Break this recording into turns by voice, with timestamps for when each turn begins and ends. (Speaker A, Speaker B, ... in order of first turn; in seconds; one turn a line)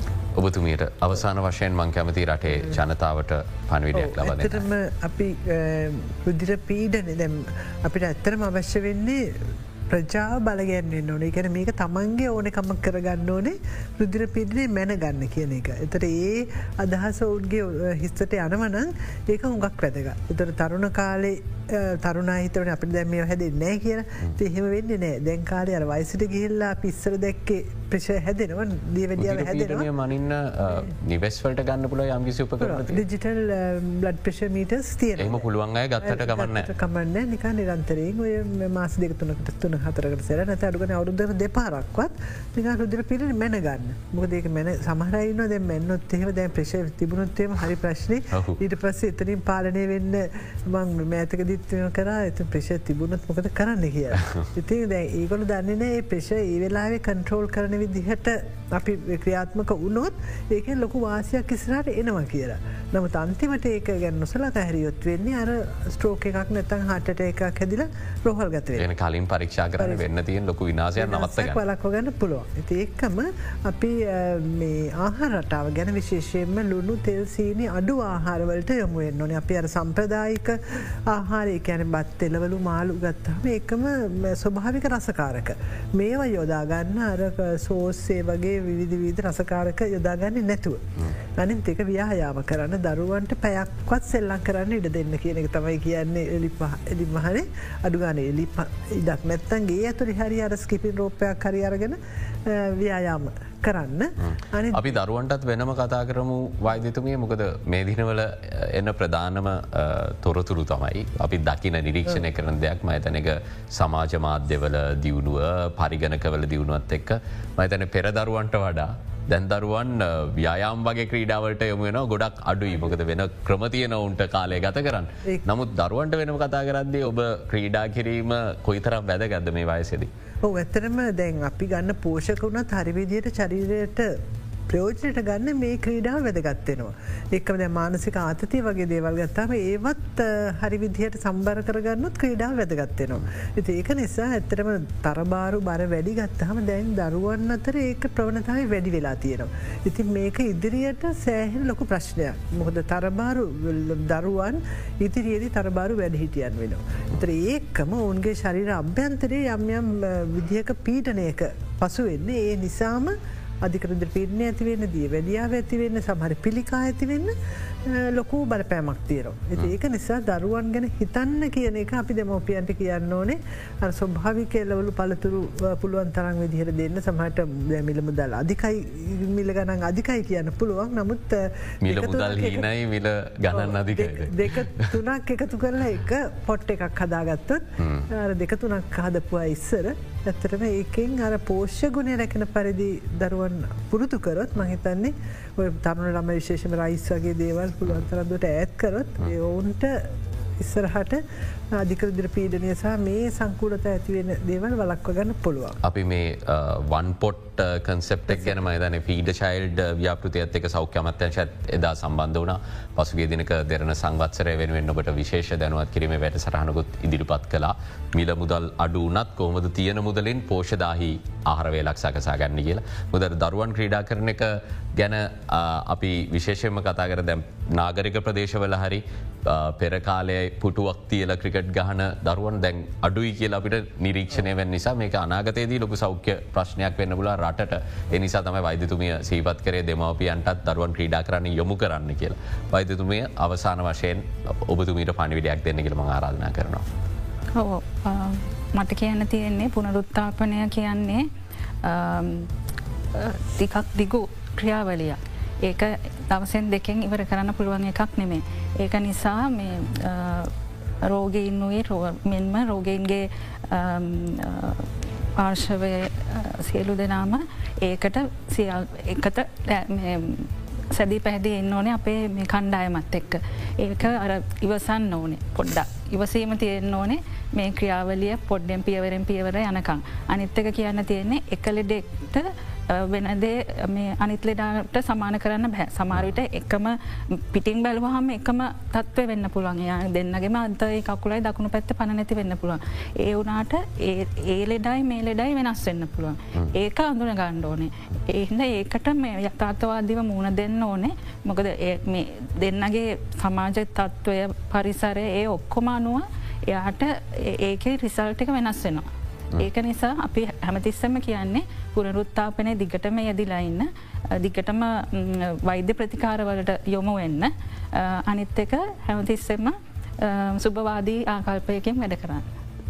Speaker A: 0.3-4.7
Speaker B: 3.9-29.9
Speaker A: 29.2-33.0
Speaker B: 32.6-35.5
Speaker A: 35.2-36.7
Speaker B: 36.0-68.9
Speaker A: 48.3-48.6
Speaker A: 68.7-71.6
Speaker B: 69.8-70.0
Speaker B: 71.0-104.9
Speaker A: 104.2-130.1
Speaker B: 130.4-182.7
Speaker A: 181.8-185.0
Speaker B: 183.5-201.2
Speaker A: 187.8-188.1
Speaker B: 201.7-205.8
Speaker A: 205.8-246.8
Speaker C: 247.5-251.3
Speaker C: 251.8-252.5
Speaker C: 253.1-309.1
Speaker C: 309.6-322.5